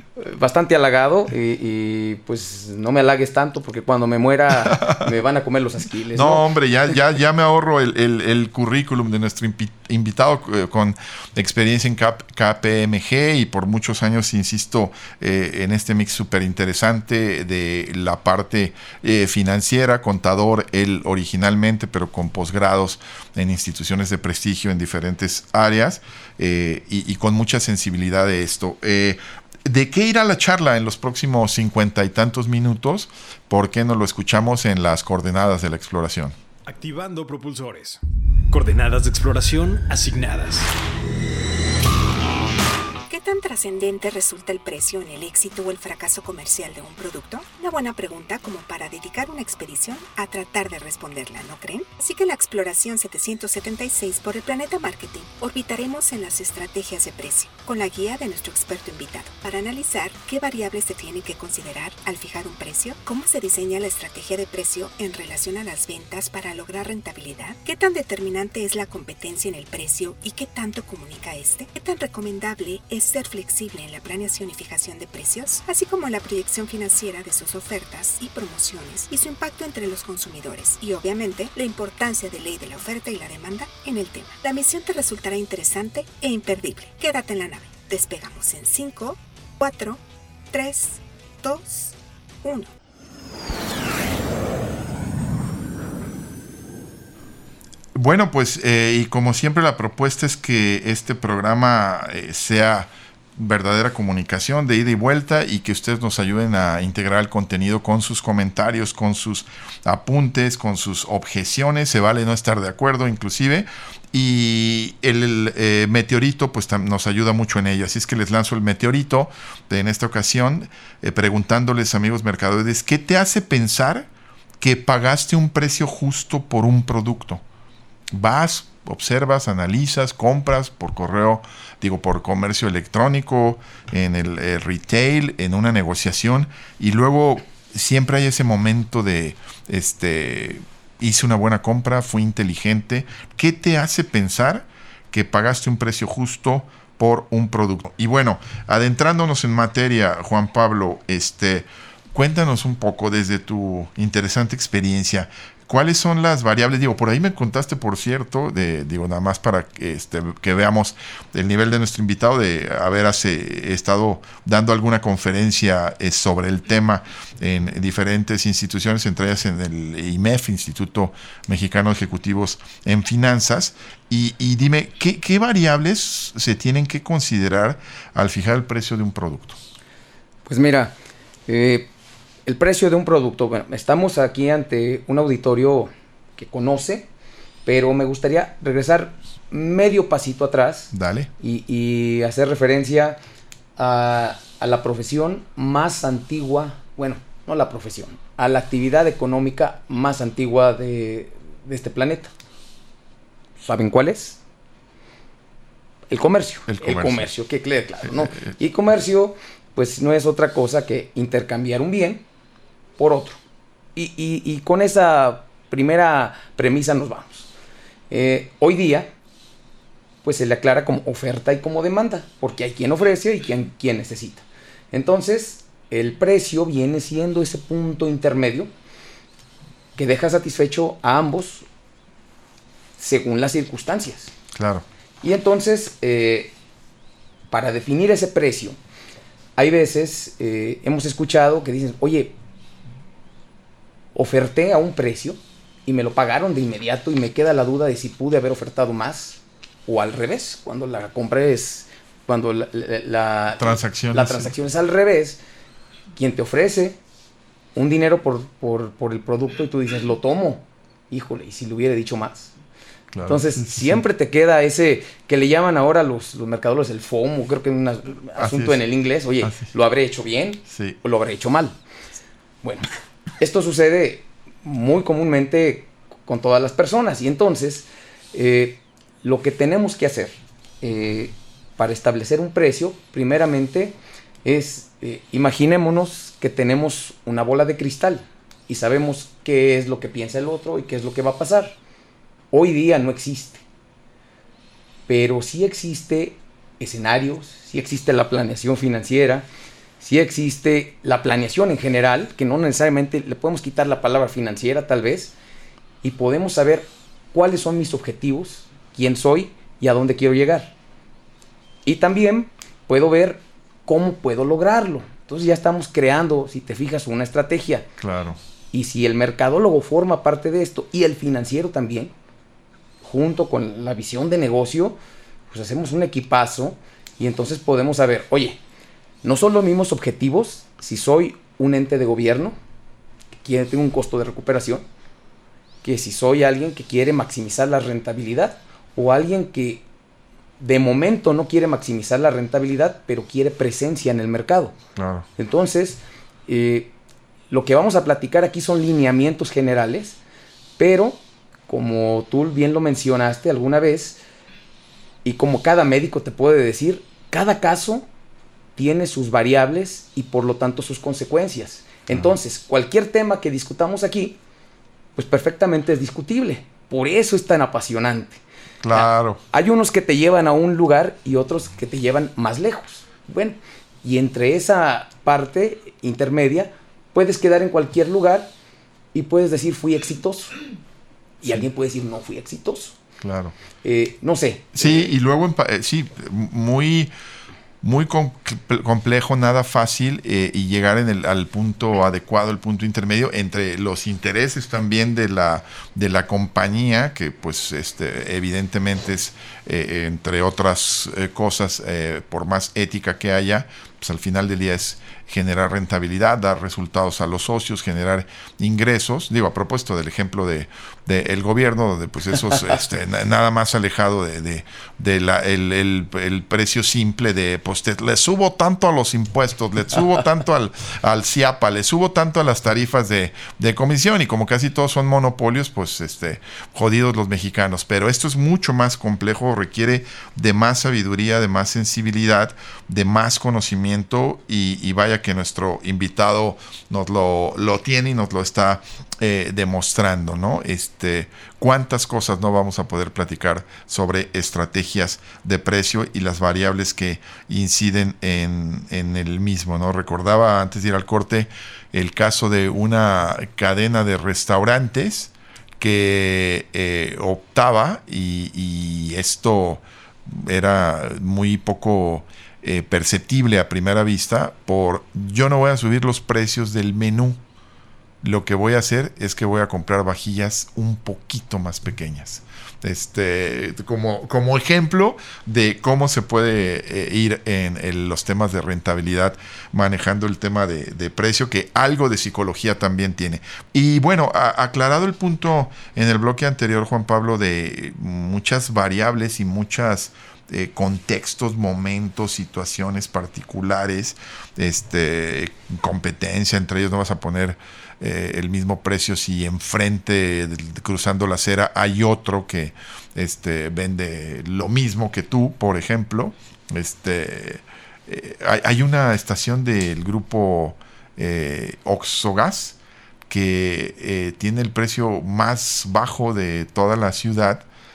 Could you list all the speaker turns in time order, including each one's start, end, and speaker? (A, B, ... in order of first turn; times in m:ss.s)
0:00.2-0:06.5 A
0:04.7-0:05.1 B
0:06.1-0:36.4 B
0:36.7-0:40.7 C
0:43.1-1:30.0 D
1:30.5-1:32.7 D
1:38.0-2:04.1 B
2:04.6-2:07.4 B
2:08.1-2:59.6 B
3:00.5-3:01.0 A
3:01.5-3:01.9 A
3:02.5-3:07.1 A
3:07.6-3:13.2 A
3:10.9-3:11.3 B
3:13.8-3:22.3 A
3:23.6-3:24.4 A
3:26.1-3:32.2 A
3:26.7-3:27.3 B
3:33.0-3:33.4 A
3:34.0-3:37.5 A
3:38.1-3:39.1 A
3:40.2-3:48.7 A
3:50.0-3:51.7 A
3:53.0-3:54.3 A
3:54.5-3:54.8 B
3:55.2-3:56.5 A
3:57.5-3:58.8 A
3:59.6-4:02.4 A
4:04.2-4:15.4 A
4:13.6-4:14.5 B
4:16.1-4:17.0 A
4:17.8-4:22.5 A
4:23.1-4:24.0 B
4:23.2-4:31.8 A
4:28.4-4:28.8 B
4:29.4-4:29.7 B
4:30.7-4:31.0 B
4:33.4-4:51.8 A
4:52.5-4:53.6 A
4:55.1-4:59.5 A
5:00.0-5:05.4 A
5:06.0-5:10.7 A
5:11.8-5:17.9 A
5:18.0-5:18.4 B
5:18.7-5:22.1 A
5:23.0-5:25.0 A
5:25.5-5:28.6 A
5:29.2-5:32.6 A
5:33.4-5:34.8 A
5:35.8-5:39.8 A
5:40.6-5:44.8 A
5:45.0-5:45.3 B
5:45.4-5:46.9 A
5:47.5-5:50.2 A
5:50.8-5:54.2 A
5:55.2-5:58.1 A
5:58.8-6:04.4 A
6:05.2-6:08.4 A
6:08.8-6:09.4 B
6:08.9-6:18.5 A
6:19.1-6:20.6 A
6:21.4-6:23.0 A
6:23.2-6:23.5 B
6:23.8-6:25.1 A
6:24.8-6:27.1 B
6:27.8-7:47.4 B
7:48.2-8:32.8 B
8:33.3-8:37.6 B